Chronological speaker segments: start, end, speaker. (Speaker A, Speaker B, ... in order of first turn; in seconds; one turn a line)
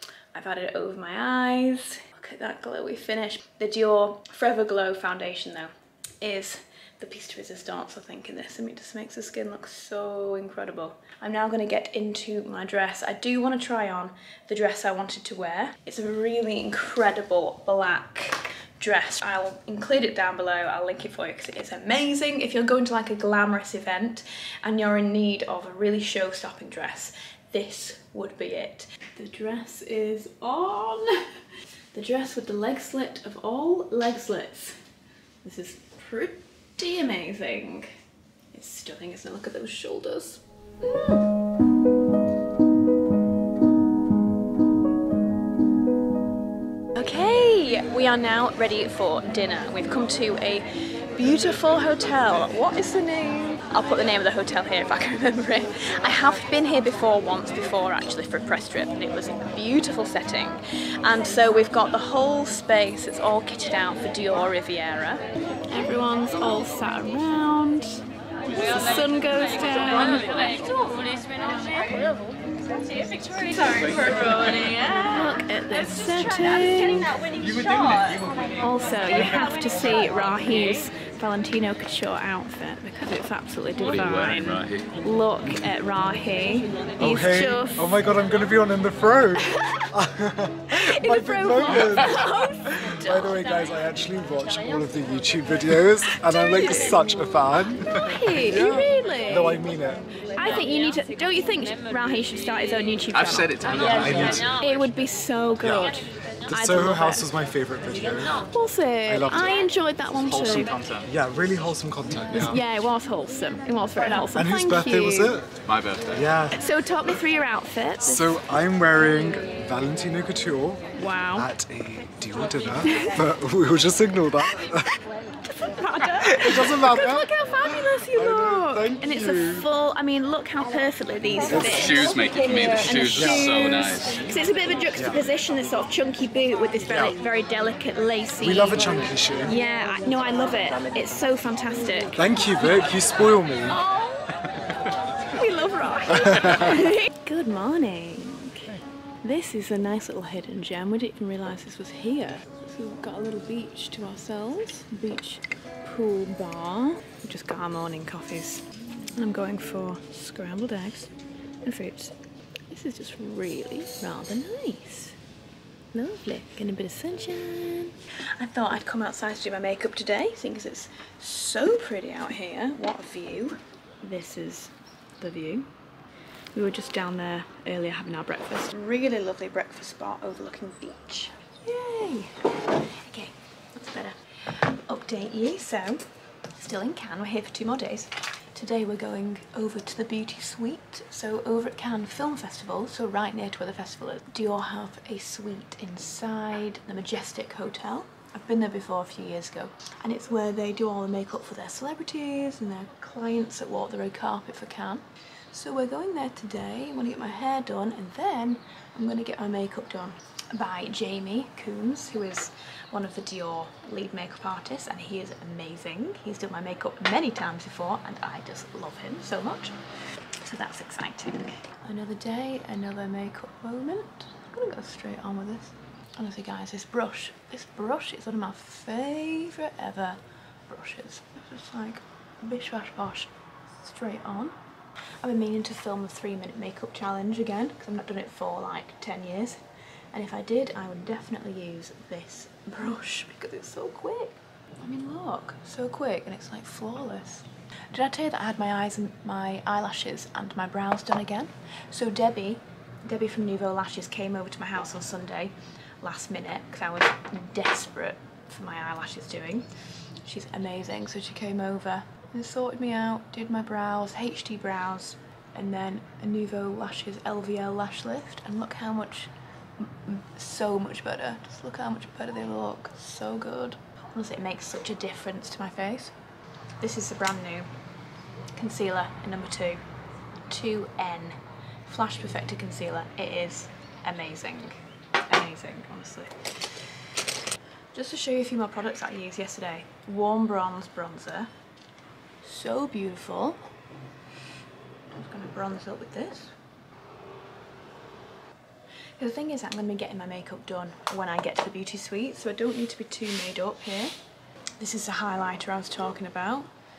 Speaker A: 0.3-31.3
Speaker A: 31.9-34.8
Speaker A: 35.4-37.9
Speaker A: 38.5-41.3
Speaker A: 47.0-68.0
Speaker A: 68.5-70.6
Speaker A: 73.4-77.2
Speaker A: 78.6-88.0
Speaker B: 83.8-84.9
Speaker C: 87.0-100.0
Speaker A: 89.4-89.9
Speaker A: 90.7-93.3
Speaker A: 96.3-97.0
Speaker A: 97.9-99.6
Speaker A: 100.3-107.3
Speaker B: 103.1-104.5
Speaker C: 103.9-104.5
Speaker C: 106.5-108.5
Speaker A: 108.5-110.7
Speaker C: 109.1-109.5
Speaker B: 110.2-111.1
Speaker C: 111.0-112.6
Speaker A: 112.4-115.3
Speaker C: 114.2-115.5
Speaker B: 115.7-116.3
Speaker C: 116.1-116.6
Speaker A: 116.5-118.3
Speaker C: 118.0-125.0
Speaker A: 121.0-121.5
Speaker A: 122.8-123.2
Speaker A: 125.5-142.2
Speaker C: 126.3-129.7
Speaker C: 131.5-131.9
Speaker B: 131.6-134.3
Speaker C: 132.7-133.4
Speaker C: 134.9-135.2
Speaker C: 138.4-139.5
Speaker C: 142.2-143.8
Speaker A: 145.3-158.6
Speaker C: 146.4-146.7
Speaker A: 159.2-161.1
Speaker A: 161.6-162.1
Speaker A: 162.7-165.2
Speaker A: 165.9-175.7
Speaker A: 176.5-186.0
Speaker A: 186.6-219.8
Speaker A: 220.4-234.5
Speaker A: 235.2-239.6
Speaker A: 240.1-259.7
Speaker A: 260.2-276.1
Speaker A: 276.8-277.7
Speaker A: 278.6-279.8
Speaker A: 280.5-286.8
Speaker A: 287.9-291.5
Speaker A: 292.4-293.6
Speaker A: 295.1-296.5
Speaker A: 299.2-304.1
Speaker A: 304.8-306.7